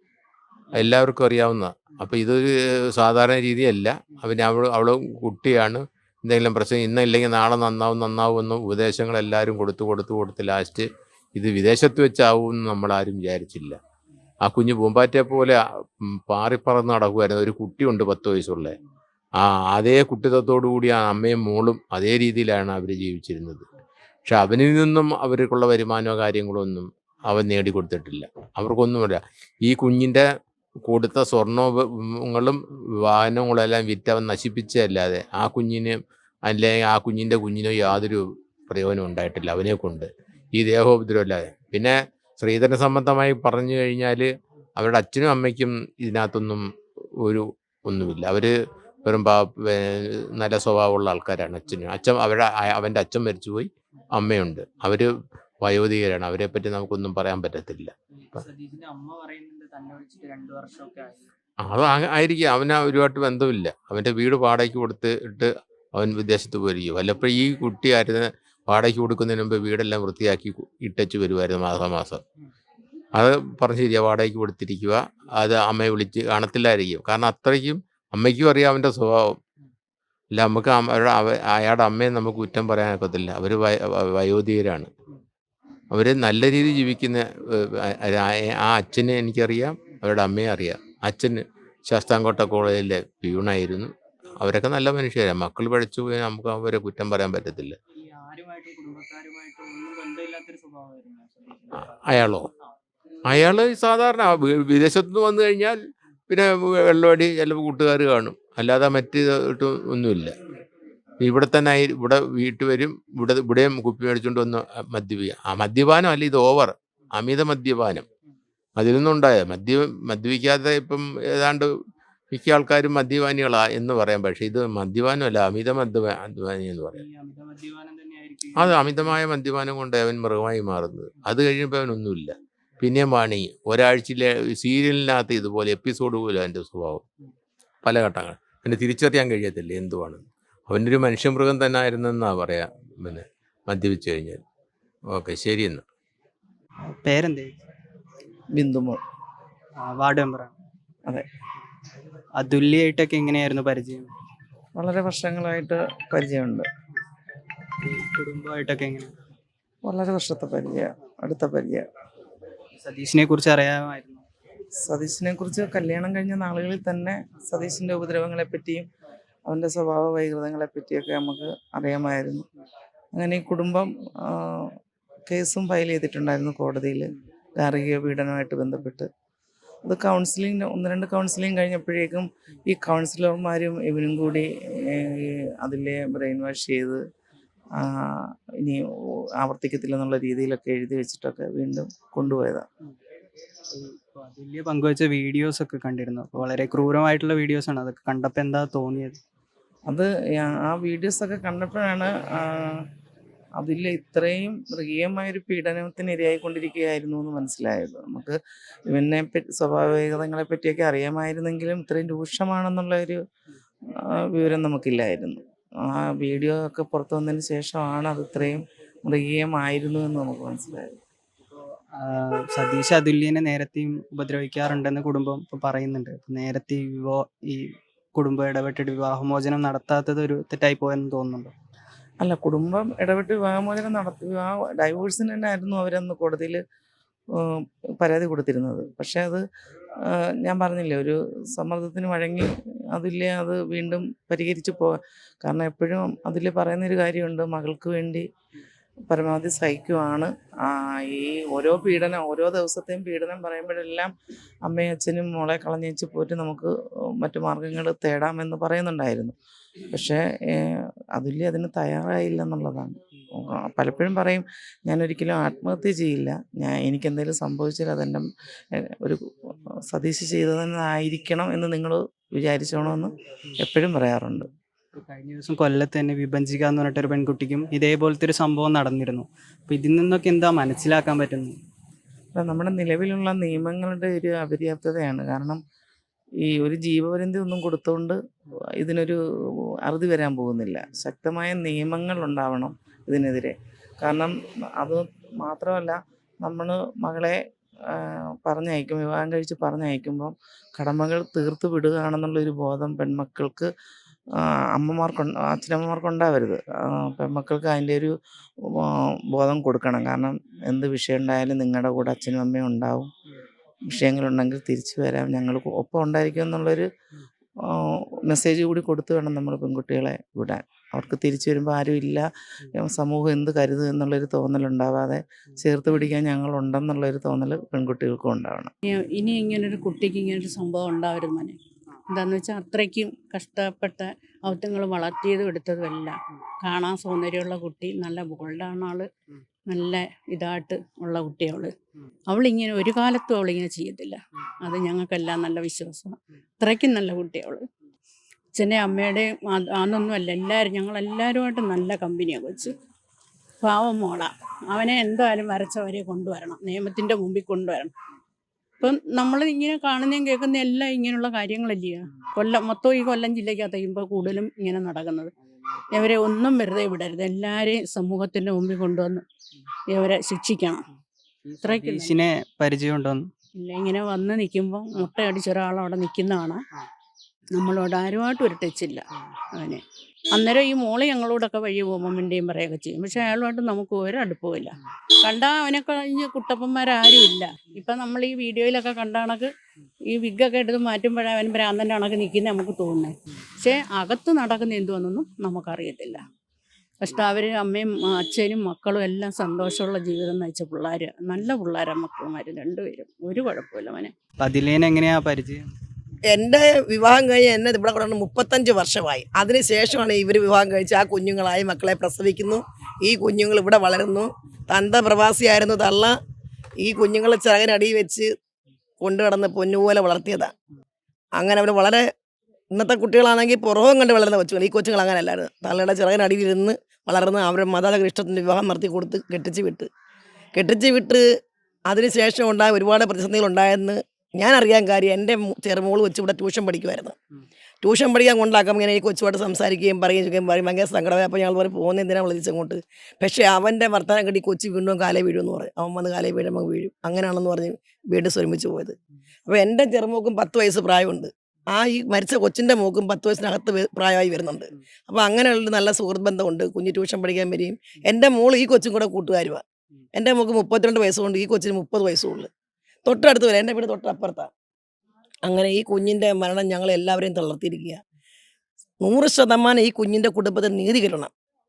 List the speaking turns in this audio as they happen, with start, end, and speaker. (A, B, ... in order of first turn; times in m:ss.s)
0:00.7-0:13.8 A
0:14.4-0:15.6 A
0:16.3-0:18.8 A
0:19.4-0:23.6 A
0:24.2-0:30.2 A
0:30.8-0:46.6 A
0:47.2-0:48.5 A
0:49.0-0:55.1 A
0:55.6-0:58.4 A
0:59.0-1:00.9 B
1:01.6-1:12.2 A
1:13.2-1:19.3 A
1:20.3-1:24.9 A
1:25.9-1:37.8 A
1:41.7-1:42.5 A
1:43.2-1:50.3 A
1:51.2-1:58.0 A
1:58.8-2:01.7 A
2:02.3-2:07.0 A
2:07.2-2:08.6 B
2:08.5-2:17.0 A
2:17.8-2:24.4 A
2:25.1-2:25.8 A
2:26.8-2:27.6 B
2:28.5-2:29.0 C
2:29.8-2:30.5 B
2:32.4-2:34.1 B
2:34.8-2:36.6 C
2:37.8-2:39.1 B
2:39.8-2:41.8 C
2:42.8-2:44.2 B
2:44.8-2:48.9 C
2:49.5-2:52.4 C
2:53.1-2:54.7 C
2:55.2-2:59.1 C
2:59.8-3:07.0 C
3:07.8-3:08.1 C
3:09.4-3:12.6 C
3:13.7-3:19.2 B
3:19.9-3:22.8 C
3:23.6-3:28.4 C
3:28.9-3:33.2 C
3:34.3-3:40.9 C
3:42.0-3:51.5 B
3:52.2-3:56.6 C
3:57.4-3:59.4 C
4:00.4-4:08.2 C
4:09.1-4:14.1 C
4:14.6-4:19.3 C
4:19.9-4:28.2 C
4:29.0-4:34.5 C
4:34.9-4:41.6 B
4:42.3-4:45.6 C
4:46.4-4:48.2 C
4:48.8-4:49.2 C
4:49.9-4:57.4 C
4:57.9-5:03.7 C
5:04.7-5:08.1 C
5:08.9-5:13.1 C
5:13.8-5:16.9 C
5:17.7-5:28.7 C
5:28.8-5:31.6 D
5:32.1-5:39.1 D
5:39.7-5:41.7 D
5:42.3-5:47.6 D
5:48.5-5:52.8 D
5:53.6-5:57.9 D
5:58.8-6:05.3 D
6:05.9-6:09.2 D
6:09.9-6:10.8 D
6:11.6-6:12.2 D
6:11.7-6:13.3 B
6:13.6-6:16.6 D
6:17.6-6:19.8 D
6:20.3-6:29.5 D
6:30.1-6:36.2 D
6:37.0-6:44.1 D
6:44.4-6:45.7 B
6:46.3-6:56.2 E
6:56.8-6:58.3 E
6:59.0-7:00.5 E
7:01.4-7:02.0 E
7:02.7-7:09.9 E
7:10.5-7:11.2 E
7:11.9-7:17.2 E
7:17.8-7:29.0 E
7:29.5-7:39.6 E
7:40.1-7:42.5 E
7:43.0-7:44.5 E
7:45.4-7:48.0 E
7:49.0-7:51.3 E